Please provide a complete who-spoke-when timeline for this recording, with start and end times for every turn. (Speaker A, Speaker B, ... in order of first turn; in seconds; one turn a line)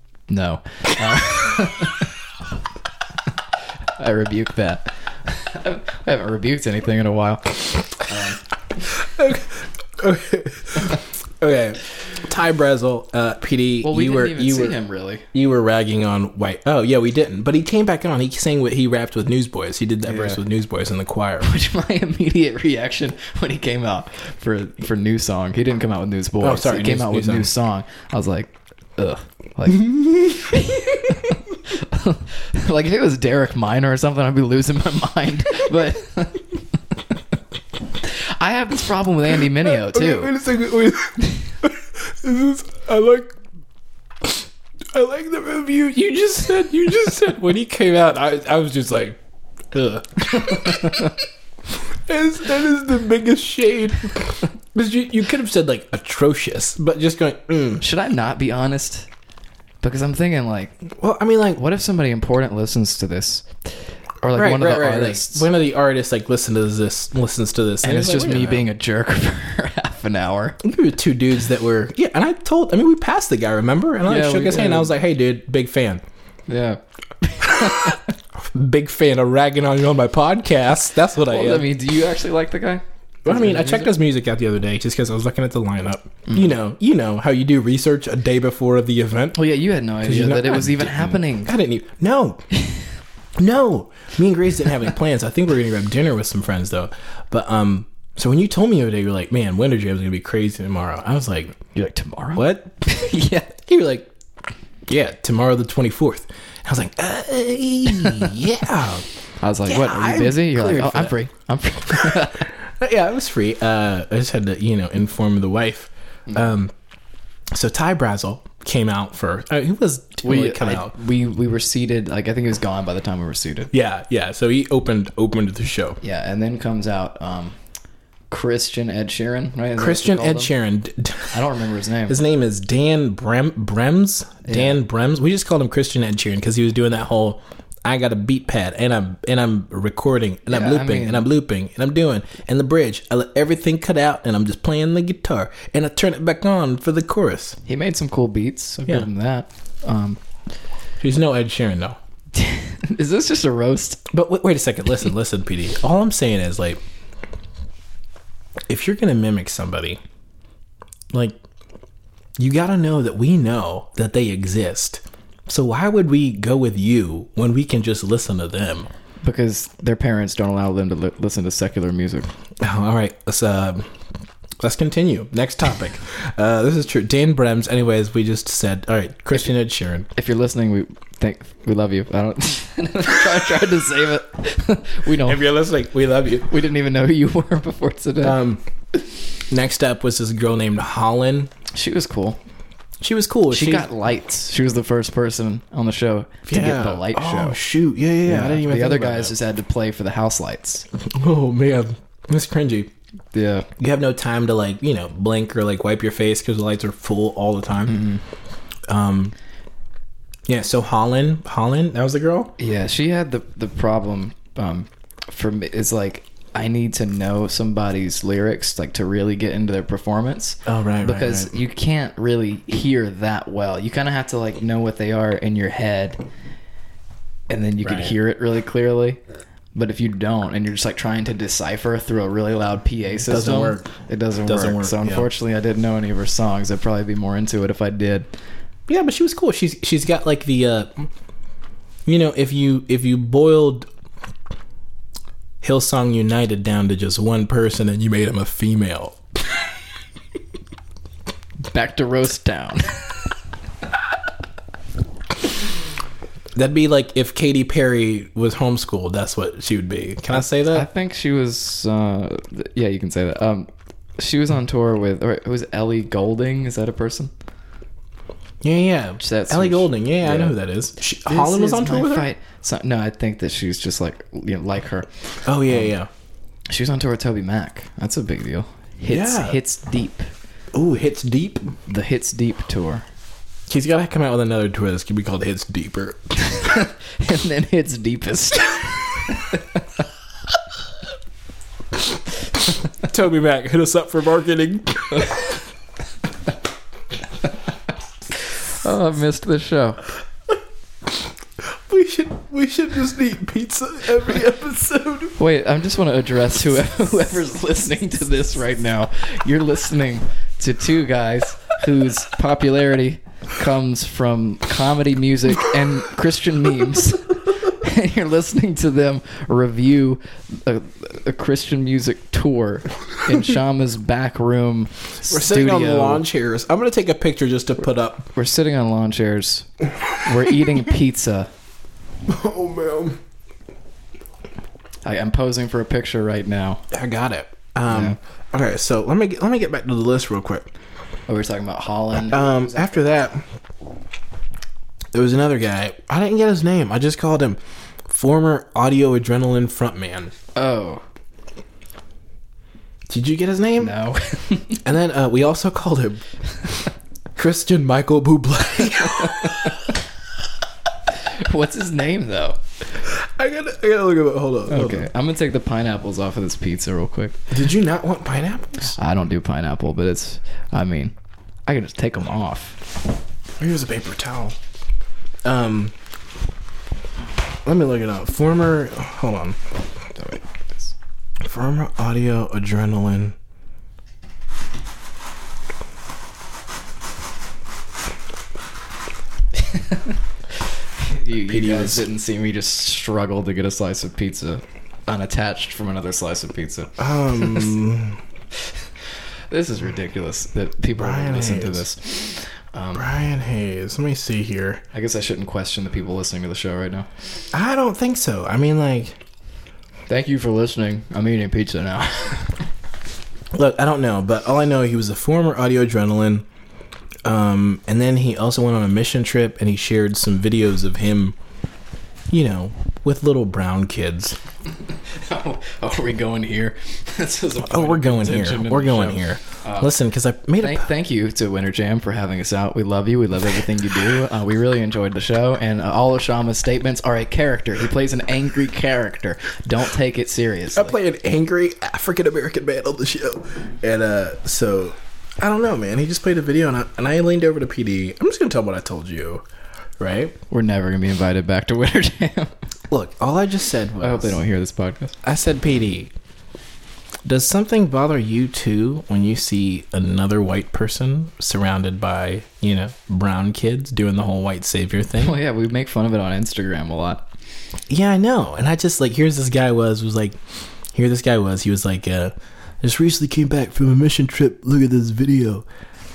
Speaker A: 0.3-2.1
Speaker A: 4.0-8.4
Speaker B: 8.9-14.8
Speaker A: 13.8-15.2
Speaker B: 15.3-21.5
Speaker A: 20.1-20.4
Speaker A: 21.4-36.5
Speaker B: 26.4-27.5
Speaker A: 38.0-40.3
Speaker B: 39.5-43.3
Speaker B: 44.2-49.2
Speaker B: 49.7-51.2
Speaker A: 50.7-51.0
Speaker B: 51.7-57.8
Speaker A: 57.8-59.1
Speaker A: 59.8-60.8
Speaker B: 60.9-61.6
Speaker A: 61.5-63.5
Speaker A: 64.2-65.5
Speaker B: 64.3-68.7
Speaker A: 67.8-70.6
Speaker B: 70.6-76.0
Speaker A: 74.0-74.9
Speaker A: 76.5-78.0
Speaker B: 77.4-81.7
Speaker A: 81.3-83.9
Speaker B: 83.2-89.4
Speaker A: 89.3-91.5
Speaker B: 90.0-92.4
Speaker B: 93.4-101.6
Speaker A: 101.7-103.5
Speaker B: 102.3-104.1
Speaker B: 104.9-109.0
Speaker A: 109.4-112.5
Speaker B: 109.7-111.1
Speaker B: 111.9-116.7
Speaker B: 117.5-120.9
Speaker A: 120.2-123.7
Speaker B: 123.7-126.0
Speaker A: 126.0-127.5
Speaker A: 128.3-130.5
Speaker B: 129.8-131.4
Speaker A: 131.3-132.2
Speaker B: 132.1-147.6
Speaker A: 134.4-134.8
Speaker A: 140.5-141.3
Speaker A: 147.7-150.2
Speaker B: 151.0-152.0
Speaker A: 152.3-154.0
Speaker B: 154.1-156.8
Speaker B: 158.7-160.0
Speaker B: 161.1-161.4
Speaker B: 162.4-168.9
Speaker A: 169.2-172.3
Speaker B: 172.6-173.9
Speaker B: 174.6-180.1
Speaker A: 180.1-185.4
Speaker B: 185.2-186.5
Speaker A: 186.5-188.4
Speaker B: 188.2-188.6
Speaker B: 189.5-191.5
Speaker A: 191.7-192.4
Speaker B: 193.0-193.9
Speaker A: 193.5-197.6
Speaker B: 196.5-199.3
Speaker A: 198.2-200.8
Speaker B: 201.0-202.9
Speaker A: 203.3-203.7
Speaker B: 203.8-208.0
Speaker A: 207.9-208.2
Speaker B: 208.9-209.3
Speaker B: 210.5-212.5
Speaker A: 212.6-226.2
Speaker B: 220.7-221.6
Speaker A: 227.5-229.2
Speaker B: 227.8-228.1
Speaker A: 229.7-238.3
Speaker B: 233.2-233.9
Speaker B: 234.4-235.3
Speaker B: 238.9-241.1
Speaker B: 242.1-243.9
Speaker B: 245.6-249.2
Speaker A: 251.7-253.0
Speaker B: 256.5-260.9
Speaker A: 260.3-267.3
Speaker B: 268.6-272.3
Speaker A: 269.2-270.6
Speaker A: 271.2-275.9
Speaker B: 275.4-276.1
Speaker A: 276.7-280.3
Speaker B: 279.1-279.6
Speaker B: 280.7-281.7
Speaker A: 281.9-283.0
Speaker B: 283.7-286.7
Speaker A: 286.5-289.8
Speaker B: 293.0-295.6
Speaker A: 298.7-300.0
Speaker B: 301.6-305.4
Speaker A: 305.4-326.2
Speaker B: 325.3-328.3
Speaker A: 328.3-331.5
Speaker B: 332.3-333.2
Speaker A: 335.0-336.8
Speaker B: 336.9-340.7
Speaker A: 337.9-338.2
Speaker A: 341.3-342.9
Speaker B: 342.3-343.4
Speaker B: 345.1-350.3
Speaker A: 350.5-351.0
Speaker B: 353.1-354.0
Speaker A: 353.8-354.8
Speaker B: 354.8-356.2
Speaker B: 357.4-360.0
Speaker A: 359.2-359.7
Speaker A: 361.3-362.6
Speaker B: 363.0-365.1
Speaker A: 364.7-367.5
Speaker B: 367.5-368.9
Speaker A: 368.9-371.1
Speaker A: 371.7-372.8
Speaker B: 373.6-374.6
Speaker B: 375.4-375.9
Speaker B: 377.6-379.6
Speaker A: 380.1-380.9
Speaker B: 381.4-383.4
Speaker A: 389.7-390.0
Speaker A: 391.0-397.7
Speaker B: 391.5-392.1
Speaker B: 397.0-398.2
Speaker A: 399.5-403.1
Speaker B: 401.0-401.8
Speaker B: 402.9-404.8
Speaker A: 404.9-407.1
Speaker B: 407.5-409.2
Speaker A: 410.1-412.6
Speaker B: 413.5-416.4
Speaker B: 417.2-421.4
Speaker B: 422.3-424.4
Speaker A: 424.9-429.9
Speaker B: 427.6-430.9
Speaker A: 430.6-440.9
Speaker B: 440.7-449.4
Speaker B: 450.0-450.4
Speaker A: 450.5-452.5
Speaker B: 452.9-454.4
Speaker A: 454.0-455.2
Speaker B: 455.2-456.1
Speaker B: 457.2-465.4
Speaker A: 465.2-467.2
Speaker B: 467.9-470.4
Speaker B: 470.9-475.6